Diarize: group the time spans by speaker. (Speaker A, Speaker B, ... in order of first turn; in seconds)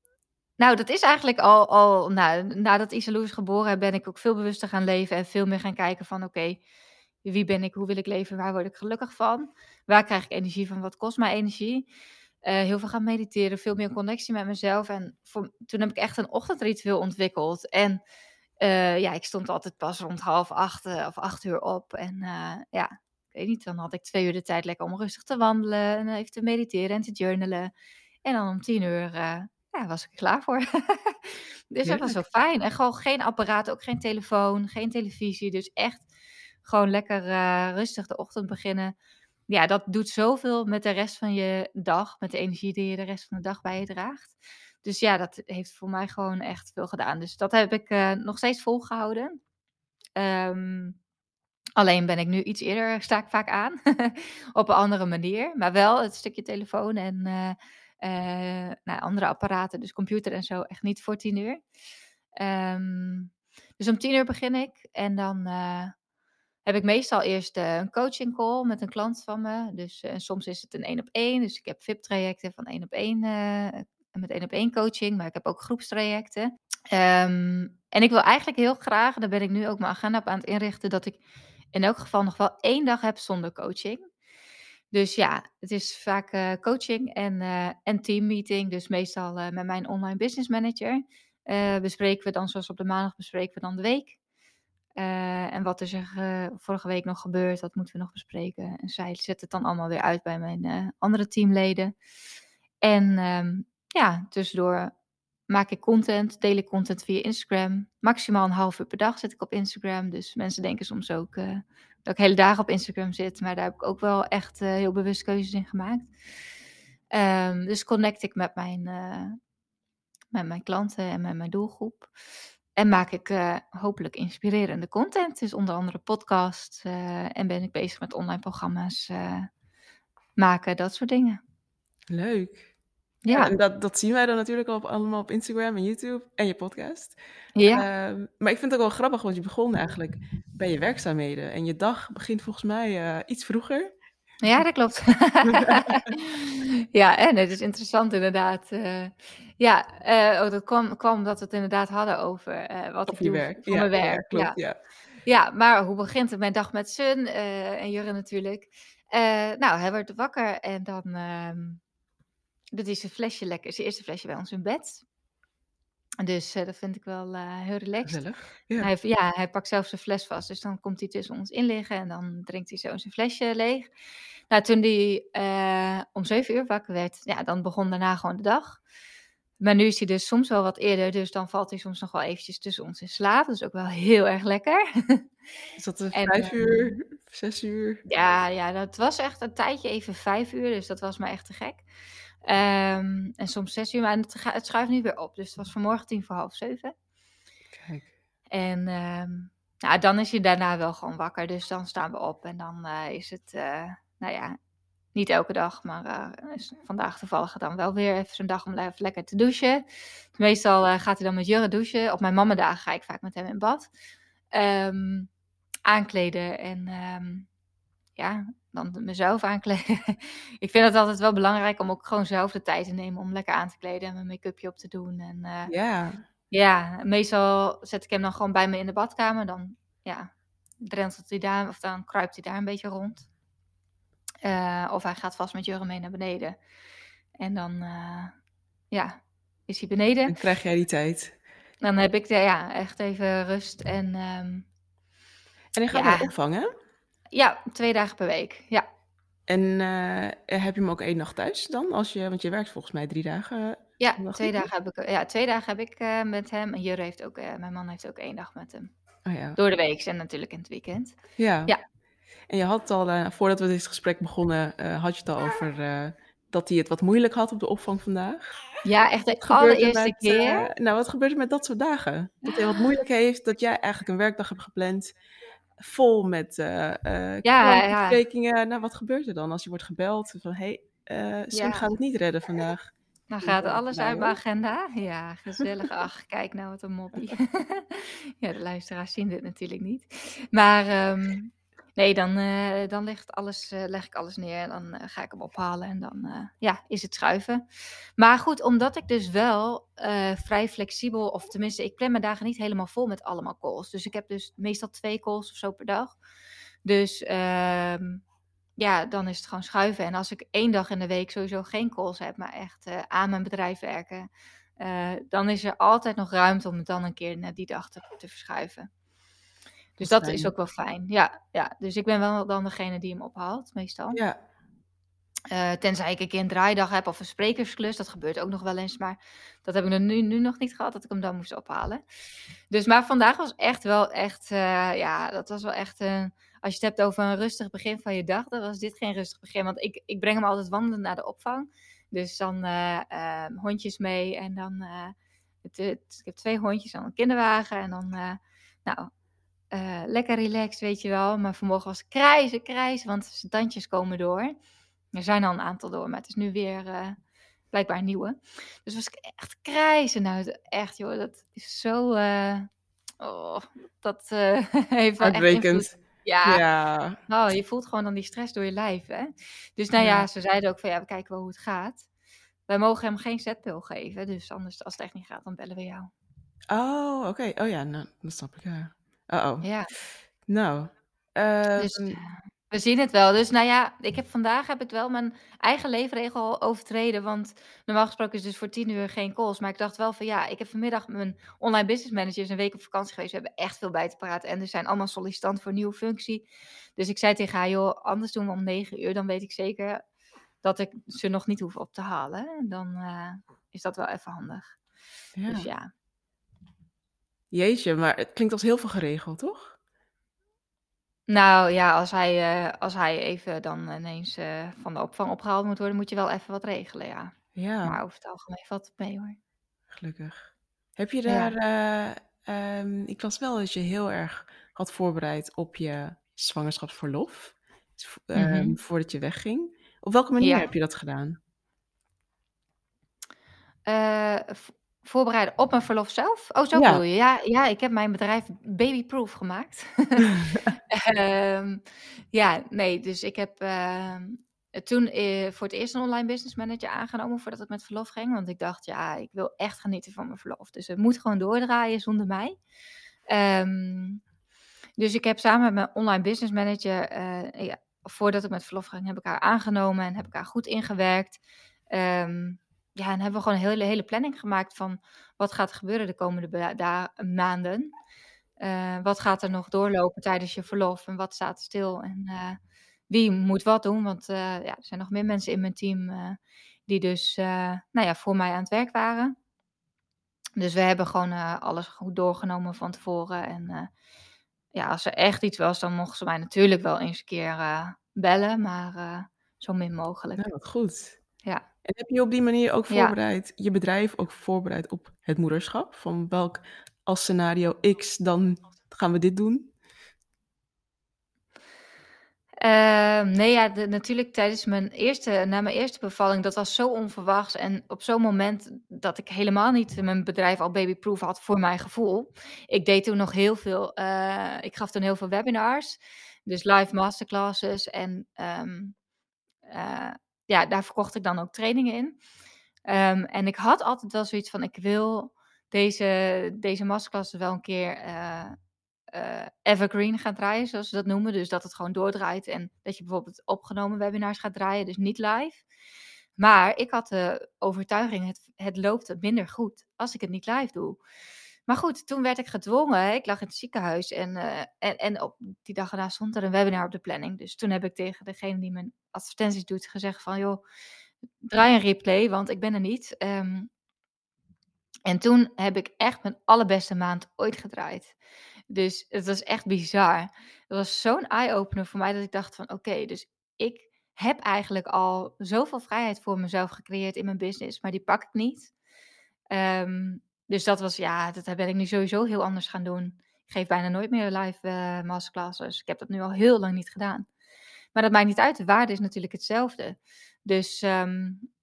Speaker A: 0.6-6.6, 7.2-11.9, 12.4-18.0, 18.6-27.7, 28.2-36.1, 36.6-38.9, 39.5-49.4, 50.2-51.0, 51.8-61.6, 62.4-66.0, 66.7-81.2, 81.7-84.1, 84.9-94.2, 95.0-101.9, 102.8-104.9, 105.5-116.1, 117.1-119.4, 120.3-122.1, 122.8-129.5, 130.4-131.4, 133.2-133.5, 137.6-137.9, 144.4-154.6, 155.2-161.8, 162.7-165.0, 166.2-168.2, 168.8-173.9, 174.5-178.8, 179.6-185.2, 186.1-186.9, 188.1-191.8, 192.4-196.9, 198.5-204.6, 205.2-213.9, 214.5-215.3, 215.9-217.5, 218.2-225.7, 226.5-230.3, 230.8-233.3, 234.4-236.6, 237.4-238.3, 238.9-239.2, 239.7-240.4, 241.8-244.7, 245.9-246.3, 247.3-248.8, 254.0-258.9, 259.6-261.8, 268.8-270.7, 277.4-278.2, 281.5-281.9, 283.3-297.6, 298.2-306.2, 306.9-308.2, 308.8-314.3, 314.8-318.9, 320.0-324.2, 325.5-332.0, 332.7-349.1, 349.7-354.6, 355.1-357.2, 357.7-362.7, 363.2-366.6, 367.3-372.1, 372.7-376.1, 379.6-379.9, 381.8-396.4, 397.0-400.0, 400.6-404.8, 405.5-405.9, 411.3-417.3, 417.9-419.4, 421.3-421.5, 428.4-428.8, 430.4-430.7, 433.9-452.6, 453.3-454.2, 455.0-461.4, 461.9-467.9, 468.6-479.4, 480.6-483.9, 484.8-490.5, 502.6-519.0, 519.7-522.2, 522.9-528.6, 529.1-535.6, 536.4-541.0, 541.7-550.6, 551.4-553.7, 555.1-558.1, 558.7-568.7, 569.5-577.3, 578.0-581.5
Speaker B: 31.8-32.2, 132.1-132.7, 133.3-137.2, 137.7-143.9, 145.5-146.1, 153.1-154.8, 168.1-168.9, 185.8-188.0, 197.7-198.1, 225.7-226.2, 240.3-241.3, 245.7-246.7, 249.5-254.7, 259.3-259.6, 261.4-261.7, 262.5-268.6, 269.4-275.1, 275.8-282.9, 283.4-284.4, 320.0-320.5, 324.1-324.4, 365.2-367.2, 370.0-370.3, 376.7-382.2, 405.4-405.7, 407.5-409.8, 417.6-418.0, 419.9-431.4, 436.8-437.0, 440.3-440.7, 490.4-491.2, 491.9-499.7